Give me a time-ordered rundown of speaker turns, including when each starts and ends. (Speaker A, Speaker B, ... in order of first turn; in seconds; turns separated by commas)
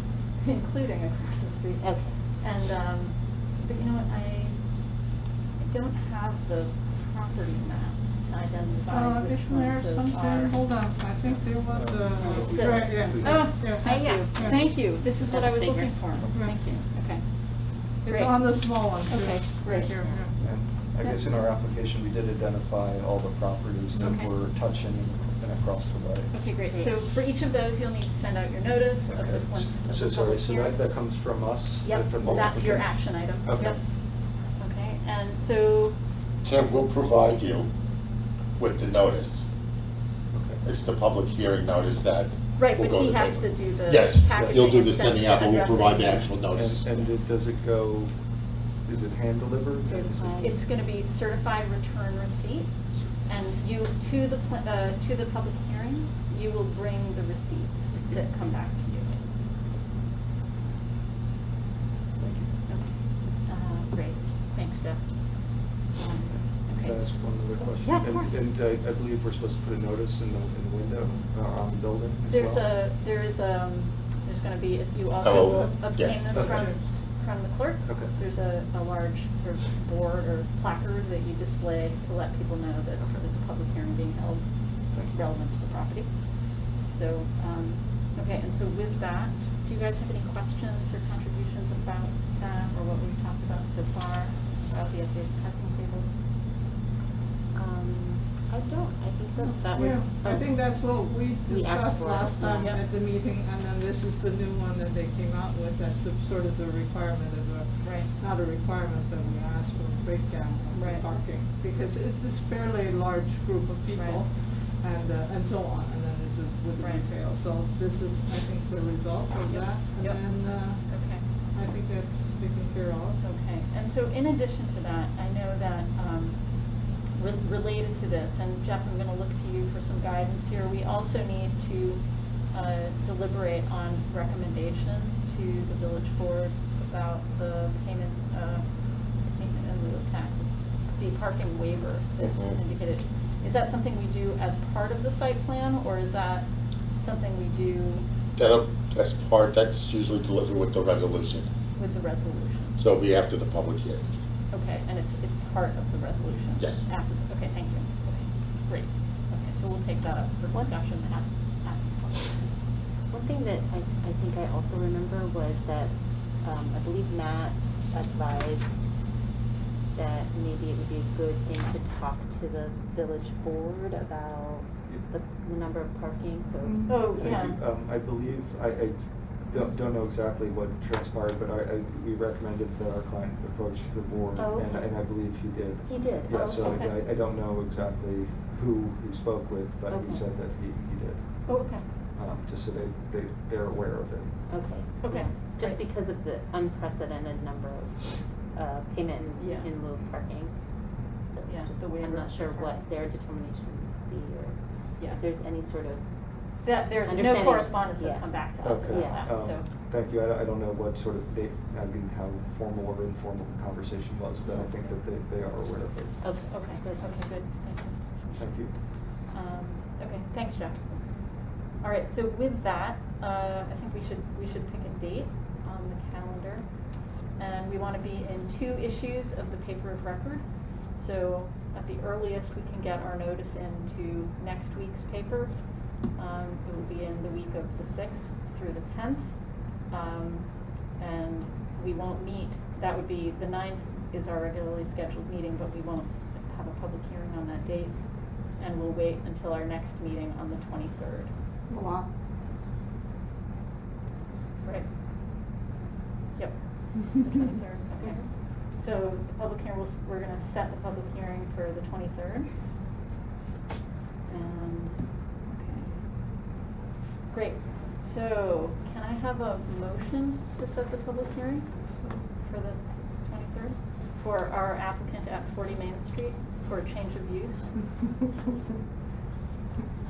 Speaker A: 0.4-4.7, Speaker B: 1.8-2.2, Speaker A: 5.6-10.6, Speaker C: 8.9-14.6, Speaker D: 11.7-13.7, Speaker A: 12.3-20.2, Speaker B: 13.8-16.2, Speaker C: 16.3-16.6, Speaker C: 18.0-20.4, Speaker B: 19.9-20.3, Speaker D: 20.4-26.5, Speaker A: 24.0-24.3, Speaker A: 26.3-30.8, Speaker D: 29.1-33.8, Speaker A: 31.8-33.8, Speaker A: 34.6-36.0, Speaker E: 36.4-37.7, Speaker E: 38.6-39.5, Speaker D: 40.3-40.6, Speaker E: 40.6-46.9, Speaker A: 42.6-46.3, Speaker D: 44.3-44.9, Speaker D: 46.5-48.1, Speaker D: 48.9-50.5, Speaker B: 49.8-50.6, Speaker A: 49.9-52.7, Speaker A: 53.2-59.2, Speaker D: 58.1-58.6, Speaker D: 62.2-62.5, Speaker A: 62.7-68.4, Speaker D: 66.3-72.8, Speaker A: 72.3-96.1, Speaker E: 75.2-76.3, Speaker D: 76.3-76.8, Speaker D: 77.8-78.1, Speaker D: 83.0-83.2, Speaker D: 84.9-85.2, Speaker B: 97.5-100.8, Speaker C: 99.4-123.2, Speaker B: 101.4-102.9, Speaker A: 107.8-108.1, Speaker A: 110.7-111.1, Speaker A: 113.9-114.2, Speaker A: 116.8-117.1, Speaker A: 119.5-121.2, Speaker A: 123.2-138.7, Speaker A: 139.3-148.1, Speaker E: 142.2-142.6, Speaker E: 148.4-151.5, Speaker A: 151.8-152.8, Speaker E: 152.8-154.1, Speaker A: 154.5-162.5, Speaker E: 156.6-156.9, Speaker B: 163.1-168.8, Speaker B: 169.9-176.9, Speaker C: 176.6-177.1, Speaker A: 176.9-177.6, Speaker D: 177.0-194.4, Speaker B: 184.4-184.9, Speaker B: 185.9-186.8, Speaker A: 186.4-187.0, Speaker B: 189.9-190.2, Speaker A: 191.5-191.9, Speaker B: 194.5-200.5, Speaker A: 195.0-195.8, Speaker A: 199.4-199.7, Speaker B: 201.3-206.0, Speaker A: 201.5-202.8, Speaker A: 206.6-209.7, Speaker B: 207.0-209.3, Speaker D: 208.6-216.2, Speaker B: 214.4-214.7, Speaker B: 216.2-217.3, Speaker A: 216.5-218.0, Speaker D: 218.3-218.8, Speaker A: 219.3-251.3, Speaker C: 251.7-252.1, Speaker A: 254.6-254.9, Speaker A: 256.4-262.5, Speaker B: 258.0-258.3, Speaker A: 264.3-266.0, Speaker A: 267.3-271.7, Speaker C: 271.9-272.2, Speaker A: 272.4-277.8